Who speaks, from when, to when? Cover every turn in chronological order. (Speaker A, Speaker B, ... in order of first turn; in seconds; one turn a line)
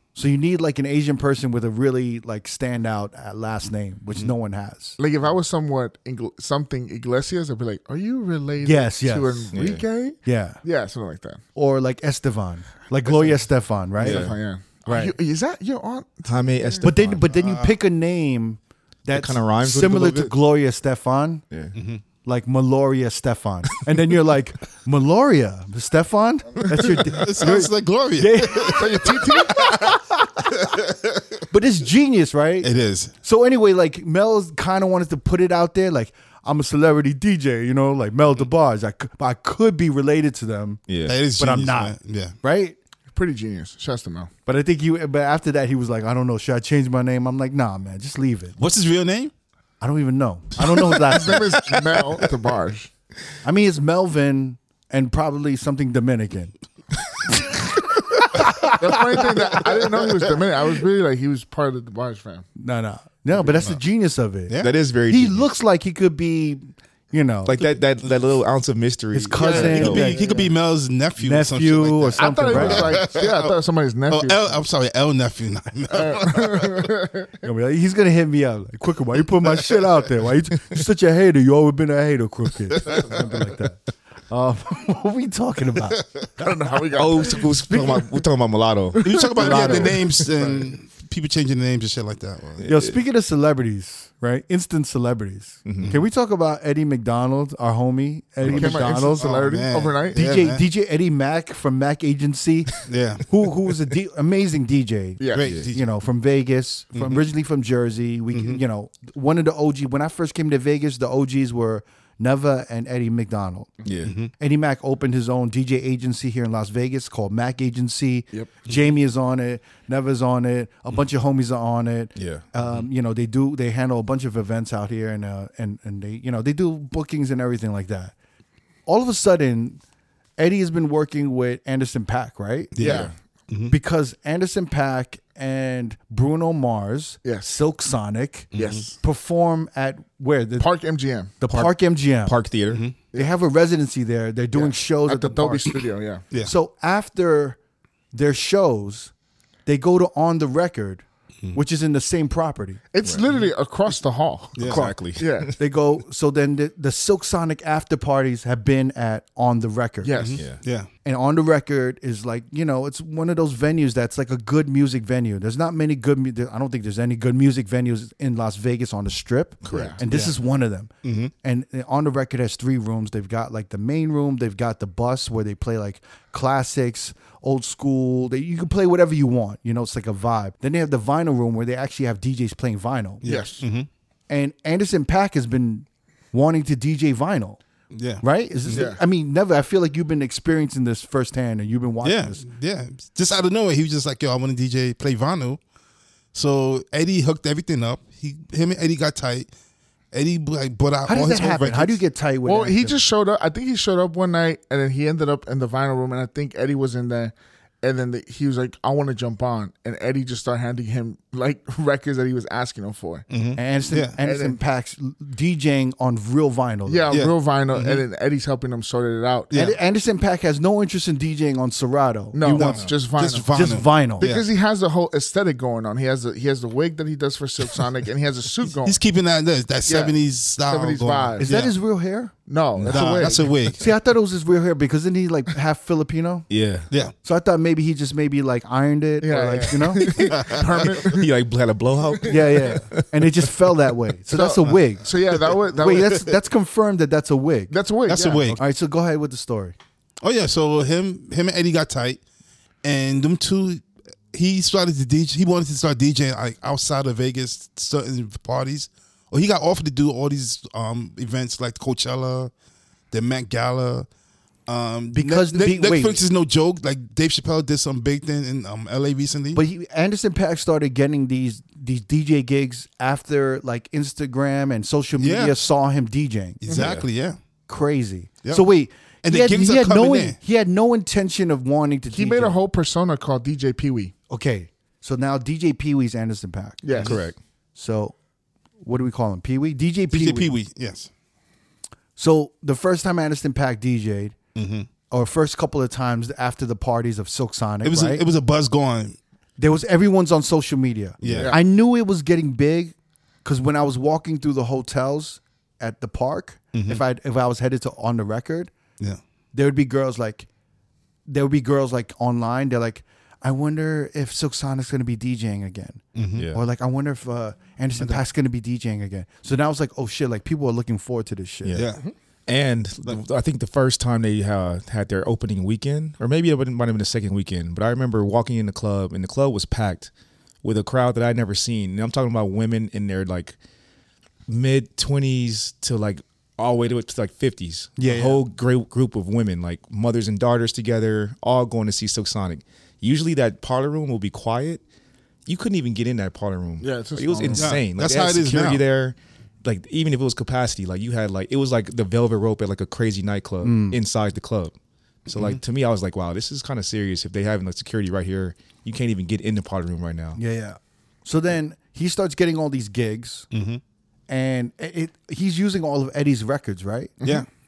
Speaker A: 0.1-5.0
Speaker B: 5.0-11.4
Speaker A: 8.6-9.5
Speaker C: 9.5-9.8
Speaker A: 10.2-10.6
Speaker A: 11.6-14.3
Speaker B: 14.0-16.8
Speaker C: 14.0-14.3
Speaker A: 14.9-15.1
Speaker C: 16.3-17.2
Speaker A: 16.8-21.4
Speaker D: 17.3-17.7
Speaker C: 19.1-20.3
Speaker C: 21.5-21.8
Speaker D: 21.7-22.0
Speaker A: 22.2-30.5
Speaker D: 26.7-29.1
Speaker B: 28.6-29.9
Speaker A: 31.5-32.7
Speaker D: 32.6-33.1
Speaker A: 33.2-40.8
Speaker C: 40.9-41.2
Speaker D: 41.0-42.4
Speaker A: 41.4-42.8
Speaker B: 43.1-44.3
Speaker A: 44.5-48.5
Speaker D: 48.6-49.3
Speaker A: 49.8-51.5
Speaker B: 51.0-52.9
Speaker A: 53.4-56.5
Speaker A: 57.2-59.7
Speaker B: 58.8-62.5
Speaker A: 62.6-67.6
Speaker D: 63.4-63.8
Speaker D: 64.5-64.8
Speaker C: 64.6-65.5
Speaker C: 67.5-70.1
Speaker A: 69.1-70.5
Speaker B: 69.4-70.3
Speaker D: 69.5-73.5
Speaker A: 71.2-73.0
Speaker B: 72.2-74.6
Speaker D: 74.1-76.9
Speaker B: 75.9-77.3
Speaker A: 77.4-86.6
Speaker B: 86.4-88.0
Speaker C: 86.9-90.3
Speaker A: 87.7-88.0
Speaker D: 89.0-92.7
Speaker A: 89.3-90.0
Speaker B: 89.4-90.7
Speaker C: 92.6-93.0
Speaker A: 92.7-99.3
Speaker C: 95.7-96.0
Speaker D: 98.4-100.6
Speaker B: 98.5-100.2
Speaker A: 100.1-113.7
Speaker D: 102.9-103.2
Speaker B: 105.2-105.5
Speaker D: 105.3-105.9
Speaker C: 105.5-105.7
Speaker D: 106.9-107.2
Speaker D: 108.3-108.6
Speaker C: 113.8-114.2
Speaker D: 114.0-114.3
Speaker A: 114.4-128.1
Speaker C: 122.2-122.5
Speaker A: 128.9-129.8
Speaker A: 130.4-133.1
Speaker D: 132.7-133.8
Speaker B: 132.8-133.1
Speaker A: 133.7-140.7
Speaker B: 137.2-137.5
Speaker D: 138.5-138.9
Speaker B: 138.5-138.9
Speaker B: 140.6-141.3
Speaker A: 141.4-142.4
Speaker C: 141.5-142.8
Speaker D: 142.7-143.0
Speaker A: 143.1-145.7
Speaker B: 144.5-146.2
Speaker A: 146.4-147.6
Speaker A: 148.1-149.1
Speaker A: 149.7-152.8
Speaker B: 152.9-155.5
Speaker D: 154.6-154.9
Speaker C: 154.7-155.6
Speaker A: 154.7-155.0
Speaker A: 155.6-160.3
Speaker B: 160.0-160.4
Speaker D: 160.2-160.9
Speaker A: 161.1-170.9
Speaker C: 169.6-170.0
Speaker B: 169.7-170.0
Speaker D: 170.1-170.3
Speaker D: 171.0-171.3
Speaker A: 171.4-183.2
Speaker D: 183.2-183.9
Speaker B: 183.2-183.6
Speaker A: 184.3-187.6
Speaker D: 187.9-188.9
Speaker A: 188.2-192.4
Speaker B: 188.7-189.0
Speaker D: 192.0-195.6
Speaker D: 196.3-199.5
Speaker D: 200.1-202.0
Speaker A: 201.1-203.0
Speaker B: 202.4-213.3
Speaker D: 213.3-214.2
Speaker A: 213.6-217.2
Speaker B: 214.2-214.6
Speaker B: 216.9-219.5
Speaker D: 217.1-218.1
Speaker D: 219.5-219.8
Speaker A: 219.5-222.8
Speaker B: 222.3-223.5
Speaker D: 222.5-224.5
Speaker A: 223.5-224.3
Speaker B: 224.2-229.0
Speaker D: 228.8-231.8
Speaker B: 229.9-231.5
Speaker A: 231.4-232.3
Speaker B: 232.5-233.5
Speaker C: 232.8-233.1
Speaker D: 232.9-233.9
Speaker A: 233.7-236.5
Speaker C: 236.5-236.9
Speaker A: 237.2-240.3
Speaker B: 239.2-241.3
Speaker D: 240.3-241.2
Speaker C: 241.0-243.4
Speaker A: 242.2-245.1
Speaker B: 244.3-246.3
Speaker A: 245.7-247.7
Speaker B: 247.7-248.6
Speaker D: 248.1-248.6
Speaker A: 248.6-249.8
Speaker D: 250.2-252.2
Speaker D: 252.8-262.5
Speaker D: 263.1-264.1
Speaker D: 264.7-269.6
Speaker A: 265.1-266.2
Speaker A: 269.5-276.6
Speaker D: 275.2-275.6
Speaker D: 276.6-277.4
Speaker B: 276.7-277.0
Speaker C: 276.7-277.1
Speaker A: 277.7-282.6
Speaker D: 279.2-280.4
Speaker B: 282.1-284.1
Speaker A: 284.3-286.8
Speaker B: 286.8-287.2
Speaker C: 287.0-287.4
Speaker A: 287.8-288.1
Speaker A: 288.8-290.5
Speaker D: 290.1-291.1
Speaker A: 292.2-294.4
Speaker D: 294.6-294.9
Speaker A: 295.1-298.2
Speaker D: 297.8-299.2
Speaker A: 299.6-308.7
Speaker D: 301.2-301.5
Speaker B: 301.3-301.6
Speaker D: 306.7-307.0
Speaker A: 309.5-310.5
Speaker A: 311.3-321.8
Speaker D: 316.1-316.5
Speaker C: 316.4-316.6
Speaker C: 321.6-330.1
Speaker D: 321.7-322.0
Speaker C: 330.6-333.6
Speaker C: 334.5-344.8
Speaker A: 338.0-338.4
Speaker C: 345.5-354.8
Speaker B: 346.8-347.7
Speaker A: 347.4-347.6
Speaker D: 347.6-348.9
Speaker A: 353.6-354.0
Speaker C: 355.3-360.4
Speaker D: 355.3-355.6
Speaker A: 360.4-363.5
Speaker D: 363.5-363.8
Speaker A: 364.3-367.1